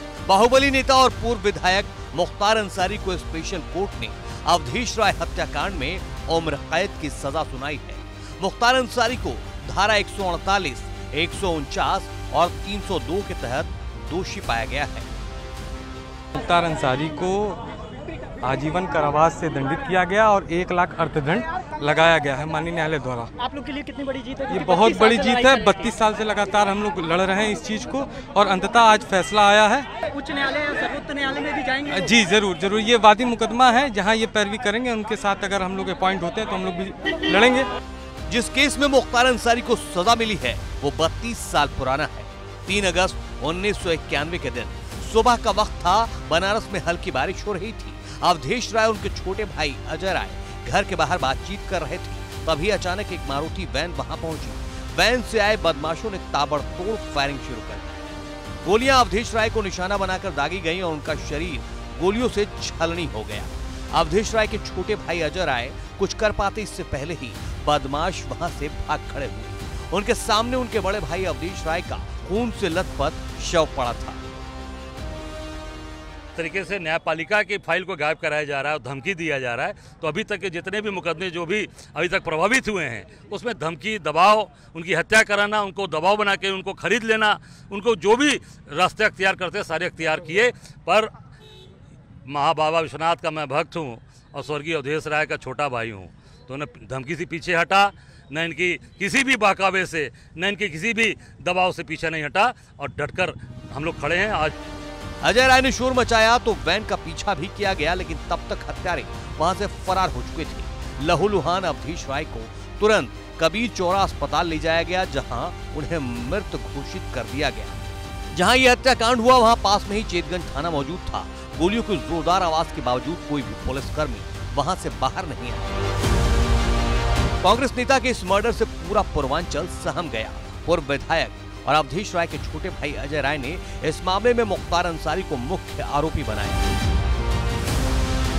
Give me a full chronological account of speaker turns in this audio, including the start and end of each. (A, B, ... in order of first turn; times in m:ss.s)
0:00.3-0:15.1 A
0:16.3-0:17.6 B
0:18.4-0:23.4 B
0:23.5-0:24.5 C
0:24.5-0:29.9 B
0:30.1-0:31.8 C
0:31.8-0:37.7 B
0:38.3-1:14.2 A
1:16.4-1:31.1 D
1:32.3-1:44.6 D
1:45.2-1:57.7 A
1:58.3-2:05.7 A
2:07.4-2:16.7 A